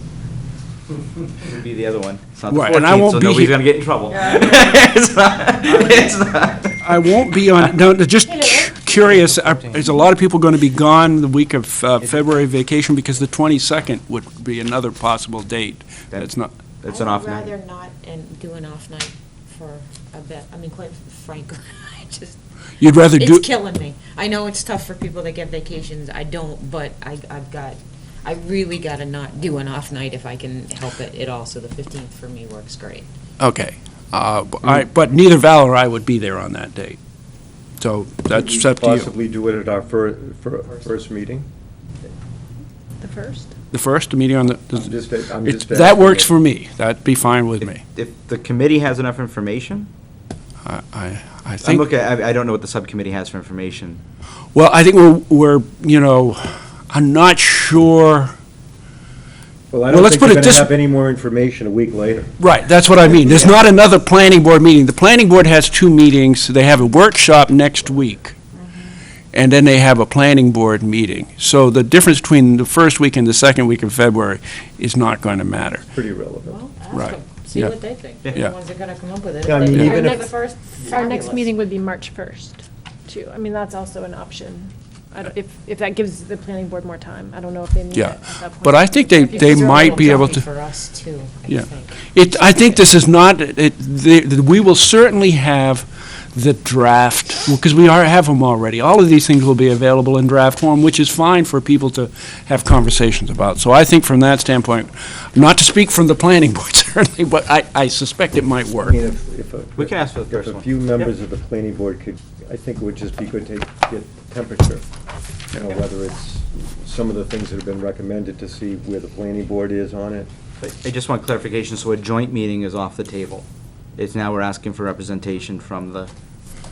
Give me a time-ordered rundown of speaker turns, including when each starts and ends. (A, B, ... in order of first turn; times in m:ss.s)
0:01.4-0:07.2 A
0:02.5-0:03.6 B
0:04.1-0:04.6 C
0:06.8-0:16.5 B
0:12.0-0:12.3 A
0:16.8-0:17.5 A
0:16.9-0:22.4 C
0:22.8-0:23.4 B
0:23.1-0:33.1 C
0:33.4-0:37.0 B
0:37.8-0:39.1 B
0:38.3-0:41.5 D
0:43.0-0:43.5 E
0:43.7-0:47.8 B
0:44.7-0:46.3 D
0:47.6-0:49.9 A
0:50.6-0:51.8 B
0:51.6-0:54.0 A
0:54.5-0:58.3 B
0:59.7-1:02.4 D
0:59.9-1:00.7 B
1:02.4-1:08.3 B
1:08.5-1:08.8 C
1:09.3-1:15.9 B
1:15.9-1:16.6 D
1:16.4-1:21.5 C
1:16.9-1:17.7 B
1:19.4-1:20.3 D
1:20.8-1:30.0 E
1:27.9-1:30.4 B
1:29.2-1:32.6 C
1:31.5-1:49.0 B
1:48.8-1:54.8 D
1:49.8-1:51.1 A
1:55.5-2:00.3 D
2:00.6-2:06.1 A